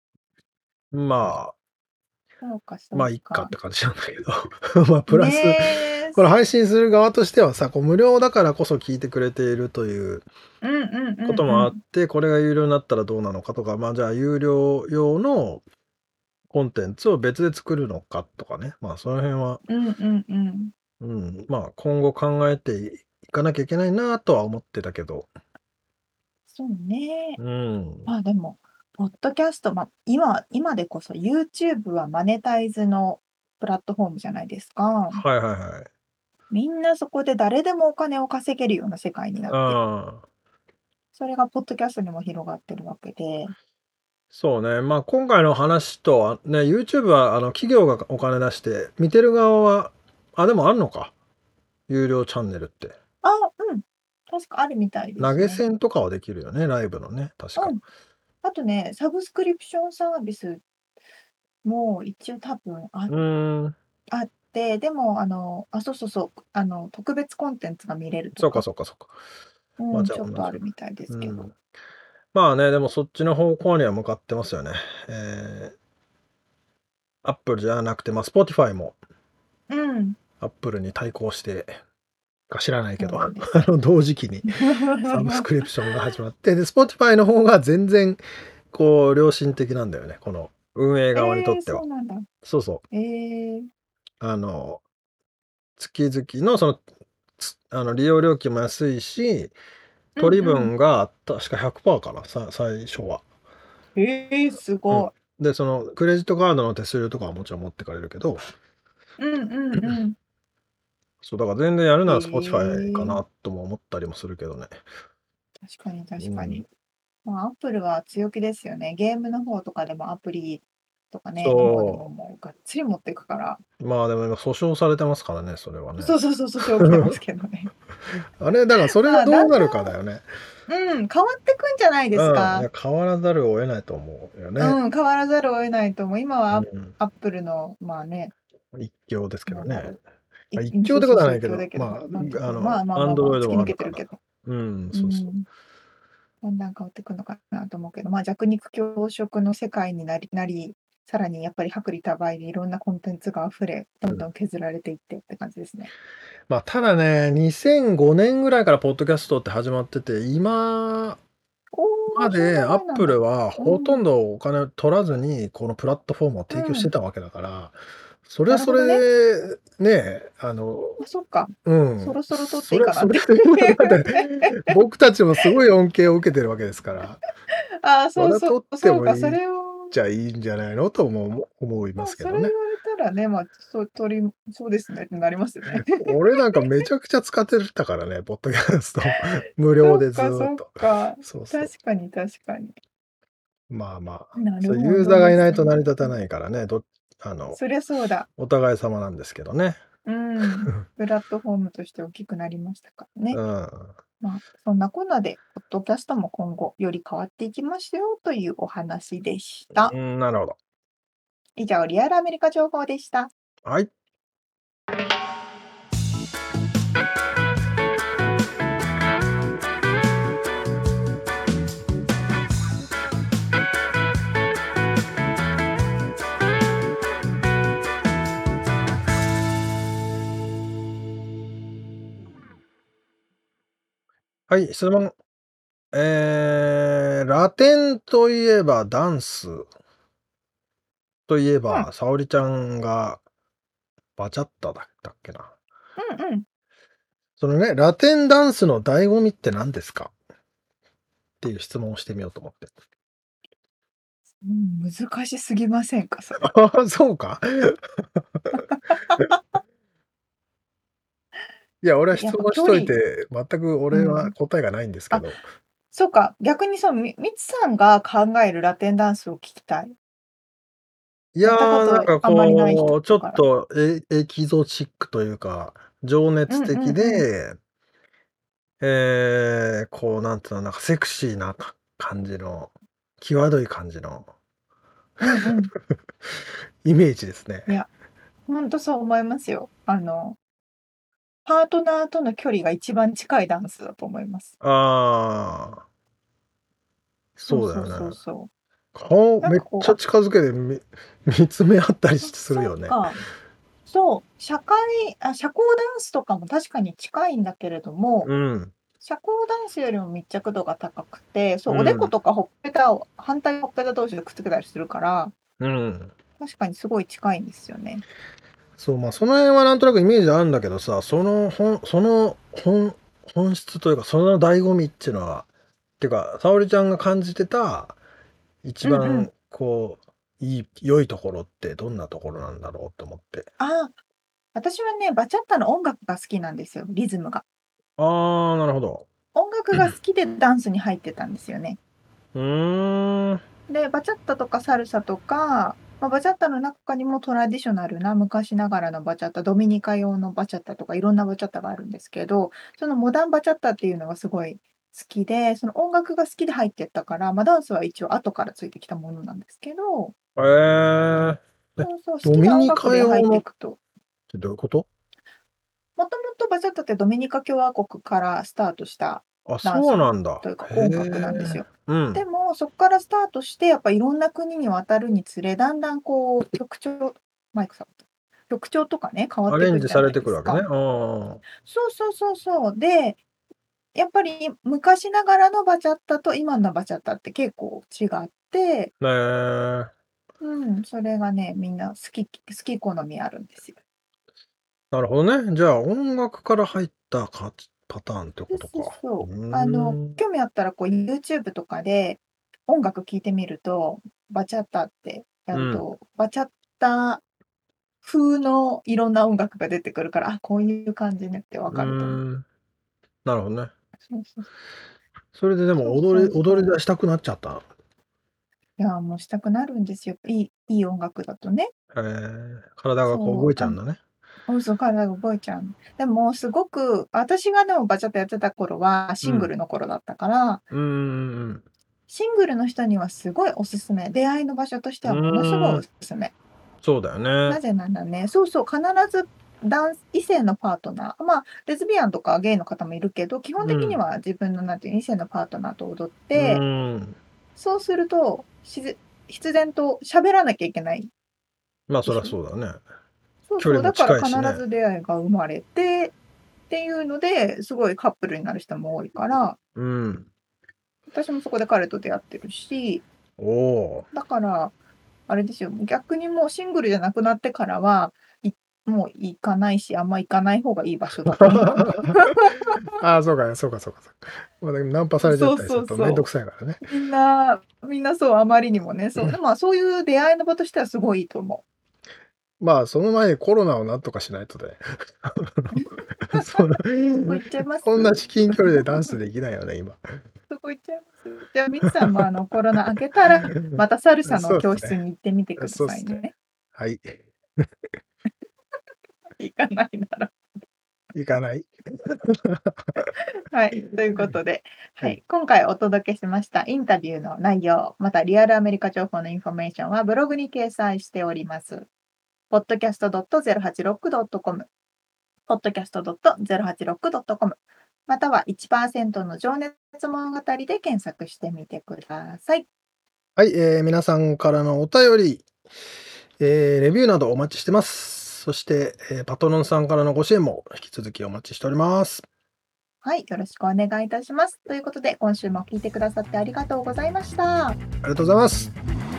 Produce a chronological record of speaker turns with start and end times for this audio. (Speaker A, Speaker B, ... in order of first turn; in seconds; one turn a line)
Speaker A: 0.9-1.6
Speaker B: 2.4-3.5
Speaker A: 2.9-10.3
Speaker B: 5.1-6.3
Speaker B: 10.6-11.8
Speaker A: 11.2-15.6
Speaker A: 16.5-19.6
Speaker B: 19.7-20.7
Speaker A: 21.0-25.3
Speaker B: 26.5-27.4
Speaker A: 27.4-28.1
Speaker B: 28.1-35.2
Speaker A: 35.1-35.9
Speaker B: 36.5-39.8
Speaker A: 39.5-40.2
Speaker B: 41.1-43.5
Speaker A: 44.3-51.1
Speaker A: 51.9-53.0
Speaker B: 53.2-55.6
Speaker A: 55.2-57.8
Speaker B: 58.4-60.6
Speaker B: 61.6-63.1
Speaker A: 63.1-63.8
Speaker B: 64.1-68.6
Speaker A: 68.4-69.1
Speaker B: 69.8-71.4
Speaker A: 69.9-70.6
Speaker A: 71.1-71.5
Speaker A: 72.3-75.8
Speaker A: 77.2-79.0
Speaker B: 79.7-80.2
Speaker A: 80.4-81.8
Speaker A: 82.5-84.5
Speaker B: 83.0-83.6
Speaker B: 84.5-86.0
Speaker A: 85.0-88.2
Speaker A: 88.7-91.8
Speaker B: 91.2-92.3
Speaker A: 92.4-92.8
Speaker B: 92.9-93.7
Speaker A: 94.2-94.8
Speaker A: 95.8-96.8
Speaker A: 97.4-99.5
Speaker B: 100.2-100.7
Speaker A: 100.2-103.2
Speaker B: 104.0-105.1
Speaker A: 104.9-108.4
Speaker B: 109.2-110.2
Speaker A: 111.2-114.8
Speaker B: 112.1-113.2
Speaker B: 115.6-116.7
Speaker A: 116.2-116.6
Speaker B: 117.2-123.6
Speaker A: 121.4-122.1
Speaker A: 123.8-126.2
Speaker B: 126.0-127.7
Speaker A: 126.8-127.2
Speaker A: 128.4-130.3
Speaker B: 129.1-129.9
Speaker B: 130.7-132.7
Speaker A: 132.2-134.8
Speaker B: 134.6-138.3
Speaker A: 136.5-136.9
Speaker A: 138.7-140.0
Speaker B: 139.5-140.0
Speaker B: 140.5-144.2
Speaker A: 140.6-145.3
Speaker B: 144.9-145.5
Speaker B: 146.4-155.9
Speaker A: 156.5-161.2
Speaker B: 161.7-164.0
Speaker A: 162.1-171.0
Speaker B: 166.5-166.9
Speaker B: 168.5-169.0
Speaker B: 171.0-174.8
Speaker A: 171.7-177.2
Speaker B: 177.8-179.9
Speaker A: 178.2-179.4
Speaker A: 179.9-182.5
Speaker B: 182.0-186.7
Speaker A: 185.7-190.7
Speaker B: 189.8-192.8
Speaker A: 191.2-191.7
Speaker A: 193.7-197.6
Speaker B: 194.4-196.2
Speaker B: 197.5-198.3
Speaker A: 198.4-199.8
Speaker B: 200.1-203.4
Speaker A: 203.3-204.0
Speaker B: 204.2-209.9
Speaker A: 209.8-210.6
Speaker B: 211.6-213.3
Speaker A: 213.7-213.9
Speaker A: 234.5-235.1
Speaker A: 235.9-239.7
Speaker A: 241.3-243.2
Speaker A: 244.2-245.6
Speaker B: 246.0-246.5
Speaker A: 247.4-250.1
Speaker A: 251.4-252.7
Speaker B: 254.4-256.5
Speaker A: 256.4-258.6
Speaker B: 258.5-259.3
Speaker A: 261.8-265.4
Speaker B: 262.1-262.9
Speaker B: 263.9-264.3
Speaker B: 265.9-269.9
Speaker A: 271.4-277.6
Speaker B: 271.4-273.4
Speaker B: 276.5-277.3
Speaker A: 278.8-284.3
Speaker B: 285.2-285.7
Speaker A: 286.8-287.7
Speaker B: 288.5-290.4
Speaker B: 291.5-294.6
Speaker A: 294.6-295.9
Speaker A: 297.4-298.2
Speaker B: 297.5-298.5
Speaker A: 298.9-303.0
Speaker B: 299.4-300.0
Speaker B: 302.3-303.2
Speaker B: 303.9-308.3
Speaker A: 308.2-308.7
Speaker B: 309.0-315.3
Speaker A: 311.7-312.1
Speaker A: 315.6-316.1
Speaker B: 316.4-318.1
Speaker A: 318.8-325.5
Speaker A: 326.0-328.0
Speaker A: 328.6-333.5
Speaker B: 328.8-329.3
Speaker B: 333.6-334.0
Speaker B: 334.6-337.4
Speaker A: 338.0-339.1
Speaker B: 339.3-341.8
Speaker A: 342.4-343.4
Speaker B: 343.7-360.1
Speaker A: 360.4-363.4
Speaker B: 361.8-363.8
Speaker A: 364.3-364.9
Speaker B: 366.0-380.6
Speaker A: 369.5-372.2
Speaker A: 379.5-381.4
Speaker B: 381.6-383.2
Speaker B: 383.9-388.9
Speaker A: 389.0-389.9
Speaker B: 390.4-393.8
Speaker A: 394.9-400.2
Speaker B: 398.5-407.2
Speaker A: 405.5-405.8
Speaker B: 408.0-412.2
Speaker A: 411.7-412.4
Speaker A: 413.2-413.7
Speaker B: 414.1-414.5
Speaker A: 415.4-417.6
Speaker B: 415.8-416.8
Speaker B: 418.8-421.7
Speaker A: 421.9-424.0
Speaker B: 423.1-423.8
Speaker B: 424.5-430.6
Speaker A: 429.2-429.5
Speaker A: 430.7-431.6
Speaker B: 432.1-436.3
Speaker A: 435.1-435.8
Speaker A: 436.8-437.6
Speaker B: 437.5-446.6
Speaker A: 443.6-444.0
Speaker A: 446.4-447.2
Speaker B: 447.6-451.1
Speaker A: 451.9-452.8
Speaker B: 452.1-452.4
Speaker B: 453.5-456.1
Speaker A: 453.6-454.6
Speaker B: 456.7-459.6
Speaker A: 459.8-460.3
Speaker B: 461.1-463.1
Speaker A: 463.4-464.1
Speaker B: 464.1-464.7
Speaker B: 465.3-472.9
Speaker A: 471.3-476.8
Speaker B: 475.2-476.3
Speaker B: 476.8-481.6
Speaker A: 482.6-490.0
Speaker B: 485.7-489.1
Speaker B: 490.5-496.3
Speaker A: 493.4-495.0
Speaker A: 495.6-496.2
Speaker A: 496.8-497.7
Speaker B: 499.4-500.4
Speaker A: 501.1-503.1
Speaker B: 503.5-511.9
Speaker B: 512.5-514.7
Speaker B: 515.5-522.7
Speaker A: 523.4-525.5
Speaker A: 526.4-532.3
Speaker B: 533.0-537.8
Speaker A: 538.0-538.7